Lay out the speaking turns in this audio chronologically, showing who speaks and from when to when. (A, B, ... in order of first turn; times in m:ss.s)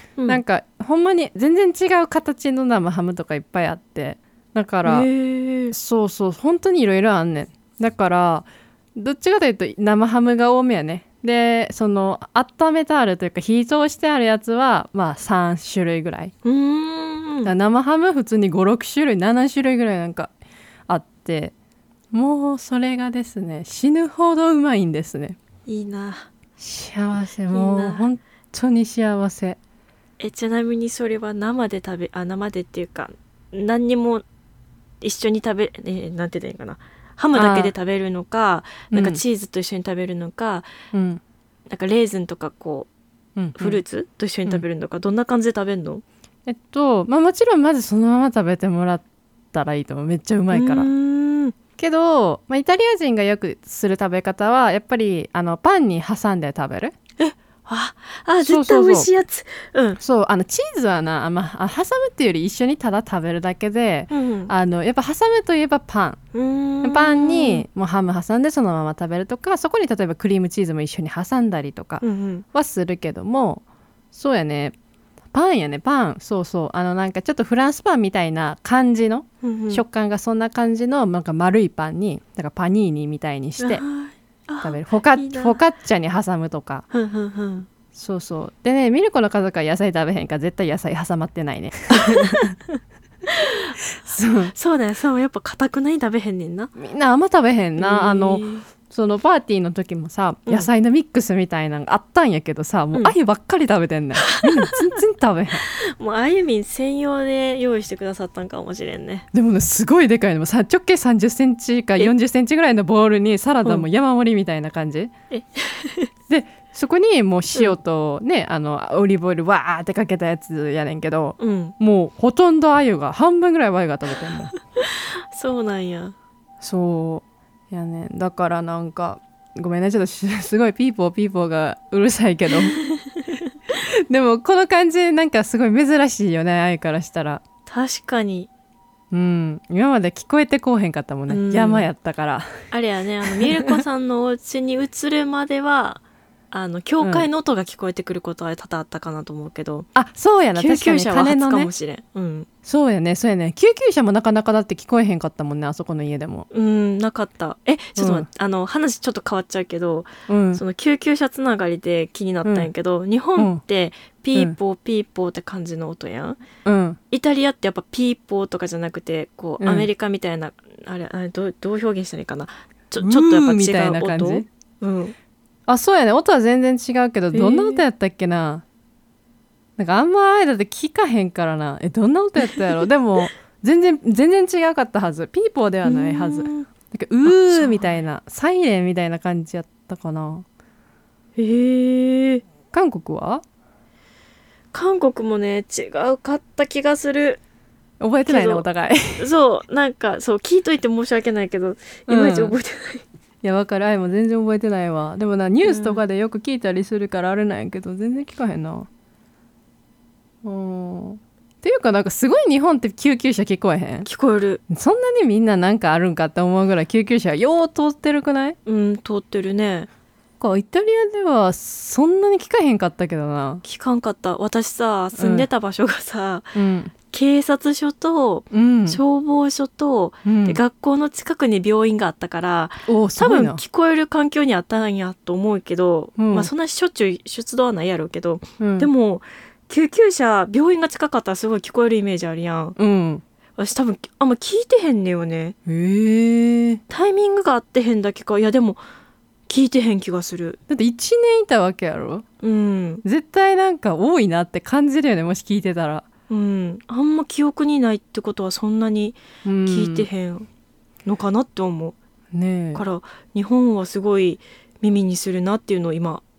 0:00.2-0:00.4 A
0:00.3-0:05.1 B
0:04.8-0:05.7 A
0:05.7-0:16.3 B
0:16.4-0:17.5 A
0:17.4-0:20.3 B
0:20.9-0:21.5 B
0:22.1-0:25.4 B
0:25.7-0:26.3 A
0:26.6-0:29.6 B
0:27.5-0:28.0 A
0:30.2-0:34.2 A
0:35.0-0:40.7 A
0:37.3-0:37.7 B
0:38.9-0:39.2 B
0:40.9-0:41.2 B
0:41.7-0:42.9 A
0:43.4-0:43.8 B
0:43.6-0:46.0 A
0:46.4-0:50.9 B
0:50.5-0:51.6 A
0:51.8-0:56.9 B
0:57.2-1:00.0 A
0:58.4-0:59.1 B
1:00.0-1:06.2 B
1:04.1-1:04.5 A
1:06.3-1:07.6 A
1:06.8-1:14.7 B
1:12.0-1:12.4 A
1:15.3-1:23.8 B
1:19.4-1:19.8 A
1:23.6-1:25.6 A
1:24.6-1:26.8 B
1:26.9-1:27.7 A
1:27.9-1:32.5 B
1:31.9-1:33.8 A
1:34.0-1:34.5 B
1:34.5-1:36.7 A
1:36.8-1:45.6 B
1:37.8-1:38.7 A
1:44.2-1:45.0 A
1:45.6-1:49.3 A
1:49.3-1:55.1 B
1:55.3-1:56.1 A
1:56.3-2:04.5 B
2:01.4-2:01.7 A
2:04.8-2:06.1 A
2:06.6-2:12.8 B
2:12.7-2:13.4 A
2:13.7-2:17.4 B
2:17.7-2:18.5 A
2:19.1-2:22.5 B
2:21.3-2:21.9 A
2:22.7-2:29.9 A
2:23.2-2:23.8 B
2:27.0-2:27.3 B
2:29.9-2:31.7 B
2:30.5-2:32.5 A
2:32.6-2:36.5 B
2:36.5-2:46.4 A
2:38.0-2:38.3 B
2:40.3-2:40.6 B
2:46.6-2:47.0 B
2:47.1-2:55.1 A
2:49.6-2:49.9 B
2:53.0-2:54.4 B
2:55.7-2:58.6 B
2:57.3-2:57.8 A
2:59.8-3:10.4 B
3:05.8-3:06.7 A
3:07.2-3:07.9 A
3:11.4-3:12.4 A
3:12.7-3:13.4 B
3:14.7-3:17.4 A
3:18.0-3:19.2 B
3:18.2-3:18.6 A
3:19.2-3:23.0 A
3:22.1-3:22.6 B
3:23.4-3:28.9 B
3:25.6-3:26.0 A
3:30.4-3:34.1 B
3:34.0-3:34.6 A
3:34.7-3:38.6 B
3:38.6-3:39.9 A
3:40.4-3:43.6 B
3:43.6-3:46.5 A
3:45.2-3:45.5 B
3:46.5-3:46.9 B
3:47.1-4:02.8 A
3:48.5-3:49.0 B
3:50.2-3:50.6 B
3:52.9-3:53.6 B
3:56.2-3:56.5 B
3:58.6-3:58.9 B
4:02.8-4:03.2 B
4:03.6-4:05.6 A
4:05.6-4:06.8 B
4:06.9-4:08.8 A
4:09.5-4:10.6 A
4:10.7-4:12.2 B
4:12.4-4:13.0 A
4:13.0-4:16.0 B
4:16.3-4:20.5 A
4:19.4-4:20.1 B
4:21.0-4:22.0 A
4:22.3-4:22.8 B
4:22.7-4:26.2 A